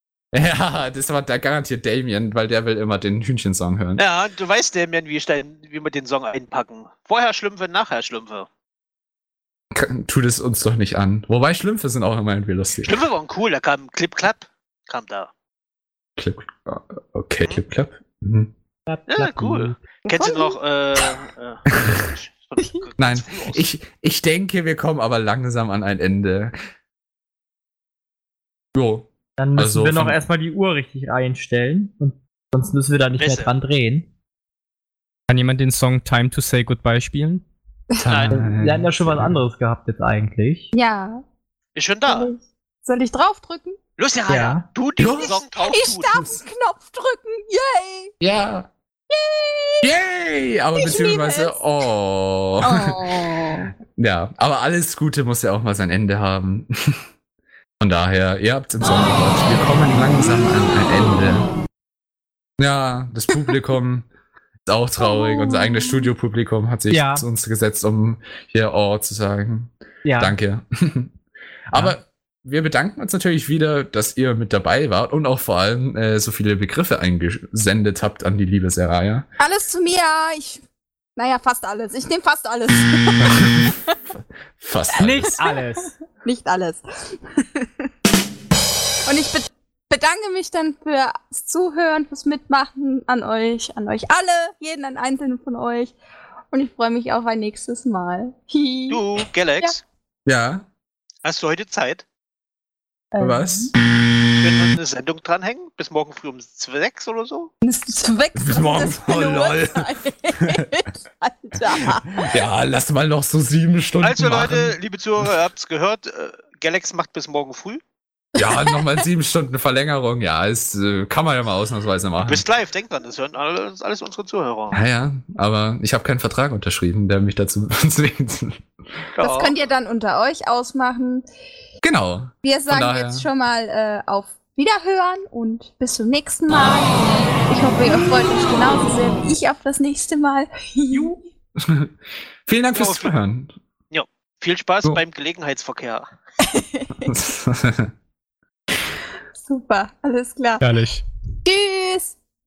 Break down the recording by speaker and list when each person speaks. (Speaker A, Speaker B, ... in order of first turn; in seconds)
Speaker A: 0.3-4.0, 9.7-12.9, 16.2-18.5, 21.8-22.0, 23.0-26.5, 28.7-30.2, 38.0-39.4, 45.0-45.4, 48.2-48.7, 49.8-53.1, 53.9-57.0, 57.8-61.5, 62.6-64.1, 64.7-71.1, 71.7-79.3, 83.2-85.4, 100.3-100.7, 103.2-103.7, 108.4-109.9, 111.7-115.3, 118.4-122.4, 124.7-128.7, 131.8-133.3, 141.6-141.9, 142.5-143.6, 147.1-147.9
Speaker B: 4.0-8.5, 12.8-15.3, 19.1-23.6, 33.2-33.5, 38.1-38.4, 41.8-42.3, 44.0-46.1, 98.9-99.8, 101.2-102.0, 104.4-107.5, 114.0-117.8, 122.2-124.8, 129.2-129.5, 142.7-143.1, 143.9-146.1
Speaker C: 18.9-19.8, 29.4-34.1, 38.3-40.7, 44.3-44.6, 66.9-67.3, 70.0-70.4, 85.0-85.9
Speaker D: 20.1-21.1, 40.7-41.2, 42.1-43.8, 45.1-48.1, 49.1-49.9, 50.8-51.6, 52.6-53.7, 65.0-66.1, 79.4-80.6, 81.2-83.8, 86.2-87.7, 89.1-96.0, 96.5-99.1, 103.1-103.7, 107.6-112.4, 118.4-118.9, 129.2-131.3, 132.4-141.2, 146.5-147.1, 149.4-150.7, 151.4-152.1
Speaker E: 35.3-37.5, 150.6-151.1